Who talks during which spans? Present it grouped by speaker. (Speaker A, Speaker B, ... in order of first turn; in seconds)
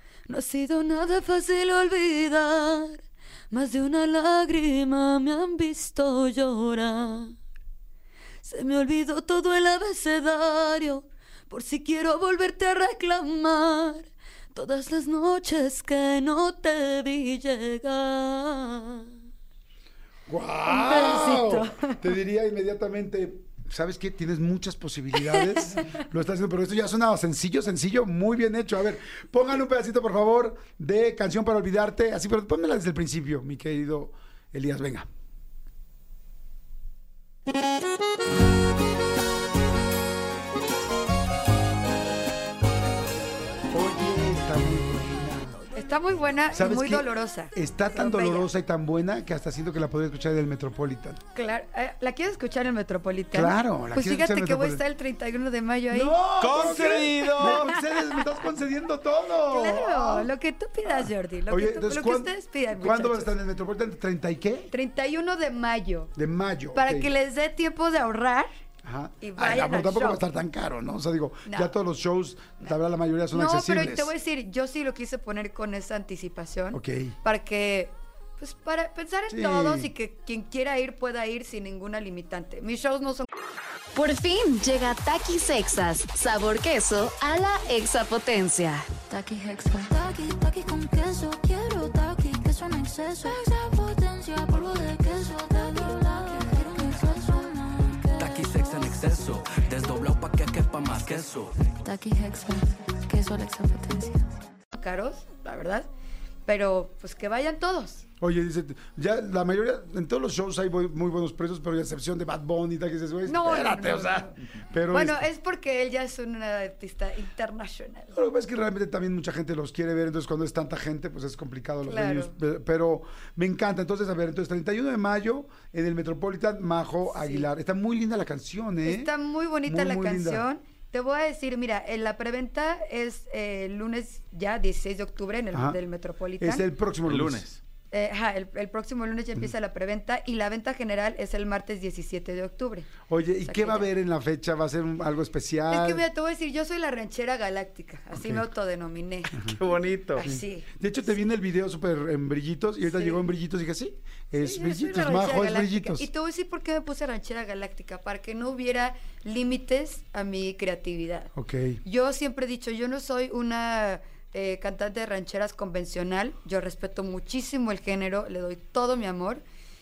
Speaker A: 0.3-7.3, 8.4-19.1, 20.7-22.1, 25.3-25.8, 45.7-48.5, 51.3-57.9, 59.4-63.3, 64.7-66.1, 66.7-68.5, 69.2-70.2, 71.5-71.7, 73.3-83.3, 104.7-105.9, 106.5-108.0, 113.2-114.4, 114.9-118.2, 121.8-122.3, 127.1-127.5, 128.8-136.7, 137.9-142.9, 143.4-143.9, 145.7-149.6, 150.1-150.7, 152.8-153.2, 154.4-161.3, 161.8-169.4
Speaker B: 20.3-35.1, 43.7-45.8, 46.5-51.2, 53.3-54.8, 55.9-60.3, 60.8-64.7, 66.1-67.1, 68.8-74.1, 76.7-77.2, 79.3-79.9, 108.2-115.2, 118.1-129.1, 129.7-130.4, 135.5-135.8, 136.4-137.4, 143.1-146.0, 148.1-148.5, 150.2-156.1, 161.3-161.8
Speaker C: 56.4-57.8, 137.0-137.6, 149.5-150.2
Speaker D: 83.9-88.9
Speaker E: 89.0-98.4, 101.8-104.3
Speaker F: 98.2-101.6